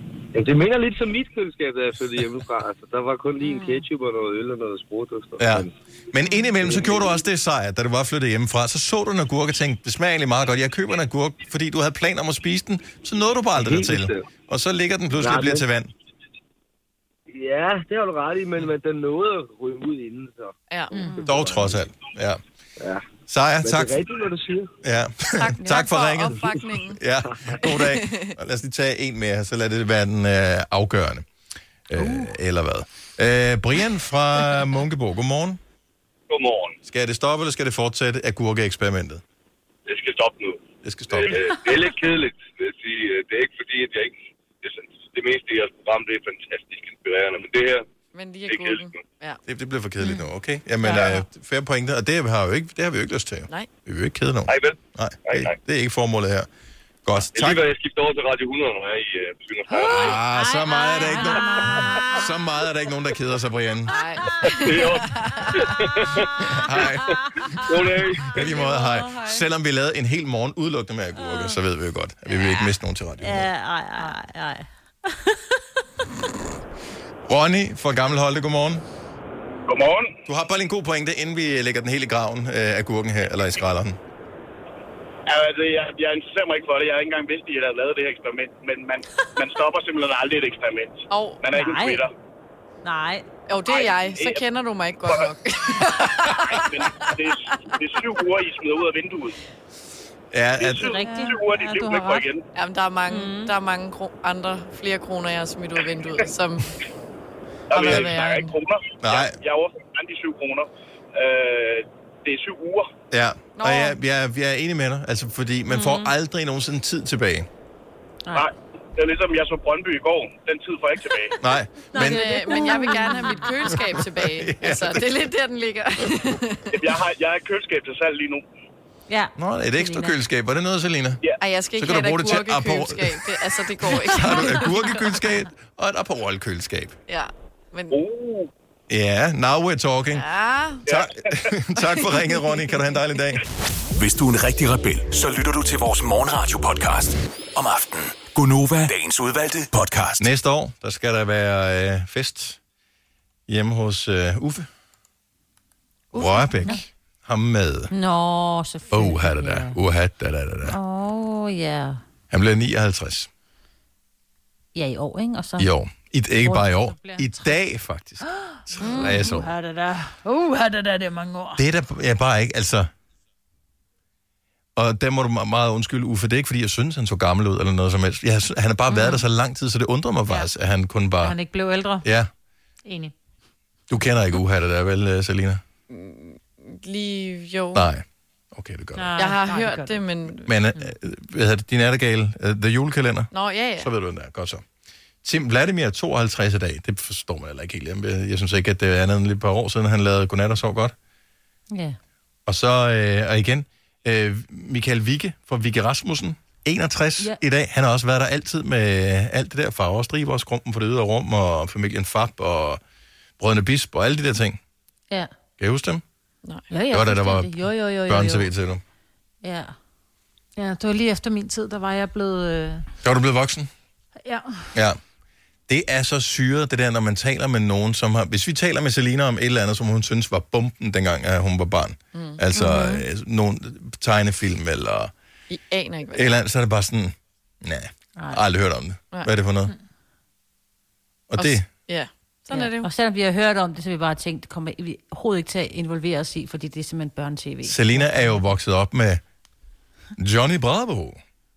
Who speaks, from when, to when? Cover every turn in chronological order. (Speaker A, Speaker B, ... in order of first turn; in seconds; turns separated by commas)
Speaker A: 0.3-5.7, Speaker B: 3.4-3.8, Speaker C: 5.4-15.9, Speaker A: 6.6-7.1, Speaker A: 13.6-14.2, Speaker A: 15.1-15.6, Speaker A: 17.3-20.5, Speaker D: 20.7-21.2, Speaker B: 20.9-21.2, Speaker A: 21.2-21.8, Speaker C: 21.2-22.4, Speaker A: 22.8-23.1, Speaker C: 23.3-24.0, Speaker A: 23.6-24.7, Speaker C: 24.8-31.3, Speaker D: 25.3-27.0, Speaker B: 25.6-25.9, Speaker D: 27.6-28.4, Speaker C: 31.9-35.6, Speaker E: 36.3-36.8, Speaker C: 36.8-39.2, Speaker E: 39.9-47.9, Speaker C: 40.8-41.6, Speaker D: 48.1-49.4, Speaker E: 48.5-49.0, Speaker C: 49.5-56.5, Speaker E: 54.5-55.5, Speaker C: 57.0-57.7, Speaker E: 57.3-60.0, Speaker B: 59.7-62.3, Speaker C: 59.8-63.9, Speaker D: 63.9-65.7, Speaker B: 63.9-65.0, Speaker E: 64.6-65.0, Speaker B: 65.7-67.7, Speaker C: 66.5-67.2, Speaker A: 67.7-68.3, Speaker E: 67.7-68.0, Speaker C: 68.3-73.5, Speaker B: 68.4-69.2, Speaker B: 71.2-71.6, Speaker B: 72.3-72.7, Speaker B: 73.2-75.5, Speaker C: 77.3-78.8, Speaker F: 79.7-80.1, Speaker C: 80.2-84.0, Speaker F: 85.3-92.1, Speaker D: 91.1-91.4, Speaker B: 91.5-92.0, Speaker B: 92.8-93.3, Speaker D: 93.5-97.1, Speaker F: 93.7-94.4, Speaker F: 95.0-95.3, Speaker F: 96.5-99.3, Speaker C: 100.3-101.0, Speaker F: 100.6-102.4, Speaker B: 100.8-102.0, Speaker G: 101.0-102.2, Speaker D: 102.5-106.7, Speaker B: 103.1-103.5, Speaker F: 107.7-112.9, Speaker D: 107.7-108.5, Speaker C: 107.8-108.1, Speaker C: 109.0-109.4, Speaker C: 113.1-117.5, Speaker D: 113.5-114.0, Speaker B: 115.7-116.1, Speaker F: 118.3-121.4, Speaker C: 121.4-122.3, Speaker B: 121.9-124.0, Speaker D: 121.9-126.9, Speaker C: 124.1-125.1, Speaker F: 126.7-128.4, Speaker B: 129.1-130.2, Speaker C: 129.4-131.2, Speaker D: 131.4-134.8, Speaker C: 131.8-137.0, Speaker D: 137.1-138.0, Speaker F: 137.9-138.5, Speaker C: 138.9-140.2, Speaker D: 140.1-140.8, Speaker C: 140.8-143.4, Speaker F: 140.9-141.4, Speaker D: 141.8-142.6, Speaker H: 143.9-150.3, Speaker C: 150.2-152.6, Speaker C: 153.5-154.7, Speaker C: 156.1-157.9, Speaker B: 157.9-159.7, Speaker C: 158.9-160.8, Speaker B: 160.7-162.0, Speaker C: 162.3-163.3, Speaker B: 164.7-165.7, Speaker C: 165.6-169.5, Speaker G: 166.4-167.6, Speaker G: 168.2-171.6, Speaker B: 168.8-169.3, Speaker C: 171.6-172.9, Speaker C: 174.8-181.3, Speaker B: 178.9-179.2, Speaker G: 181.2-182.1, Speaker C: 182.0-182.3, Speaker G: 182.8-183.1, Speaker C: 183.9-185.6, Speaker D: 185.9-187.9, Speaker C: 187.7-189.2, Speaker G: 188.9-190.0, Speaker D: 189.2-190.5, Speaker C: 190.4-194.6, Speaker D: 193.3-193.9, Speaker C: 195.2-200.9, Speaker B: 201.7-202.0, Speaker C: 202.4-212.8, Speaker C: 213.4-214.6, Speaker C: 215.6-216.0, Speaker B: 216.7-218.5, Speaker C: 216.9-218.8, Speaker B: 219.4-219.7, Speaker G: 220.6-222.8, Speaker C: 223.0-223.7, Speaker G: 224.2-224.7, Speaker C: 225.7-235.1, Speaker D: 232.1-232.4, Speaker B: 232.6-232.9, Speaker D: 235.5-236.4, Speaker C: 236.1-239.7, Speaker C: 241.3-241.6, Speaker D: 241.4-242.9, Speaker B: 242.5-248.4, Speaker C: 247.6-249.2, Speaker C: 250.2-251.2